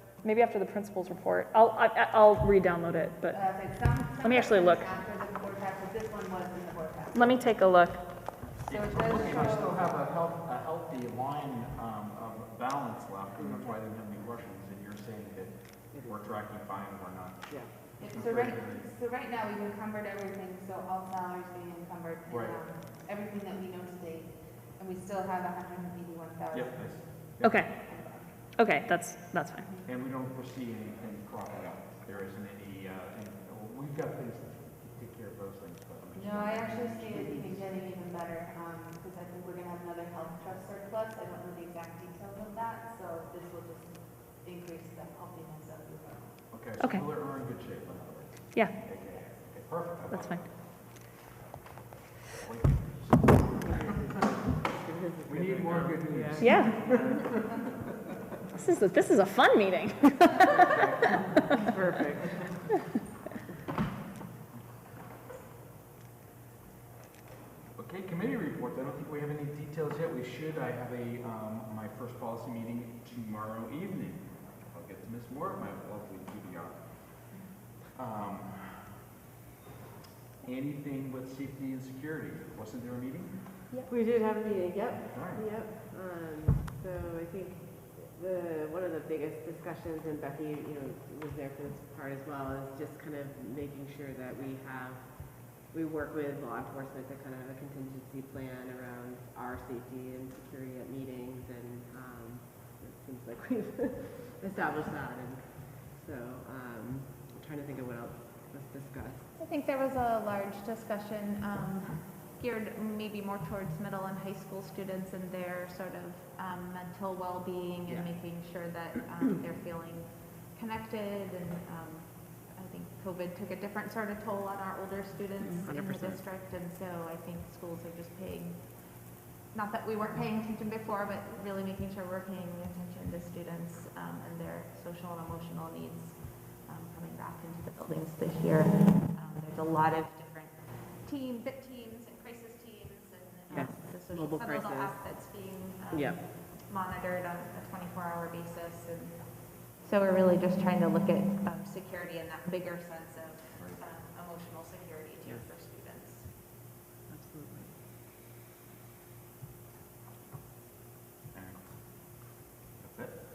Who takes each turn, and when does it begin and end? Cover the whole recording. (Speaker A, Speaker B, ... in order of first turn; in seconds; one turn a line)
Speaker A: 0.2-4.9
Speaker B: 3.3-7.5
Speaker A: 7.1-8.1
Speaker B: 8.5-9.9
Speaker C: 8.6-19.0
Speaker D: 13.4-13.7
Speaker D: 15.9-16.3
Speaker B: 18.0-27.3
Speaker C: 22.3-22.7
Speaker C: 26.5-27.7
Speaker A: 27.4-29.7
Speaker B: 27.9-28.4
Speaker C: 29.9-37.6
Speaker B: 36.2-46.3
Speaker C: 46.5-50.6
Speaker A: 50.1-50.5
Speaker C: 52.2-54.0
Speaker D: 53.6-57.1
Speaker C: 55.3-57.8
Speaker A: 56.4-56.8
Speaker A: 58.5-60.7
Speaker C: 60.6-61.8
Speaker D: 61.7-62.5
Speaker C: 67.8-79.0
Speaker C: 80.4-83.5
Speaker D: 83.9-109.3
Speaker C: 85.1-85.5
Speaker E: 109.4-140.5
Speaker D: 125.7-126.2
Speaker E: 141.1-156.3
Speaker D: 143.5-145.0
Speaker D: 145.9-146.2
Speaker C: 153.6-153.8
Speaker D: 157.1-157.8
Speaker C: 161.3-161.6
Speaker C: 162.8-163.2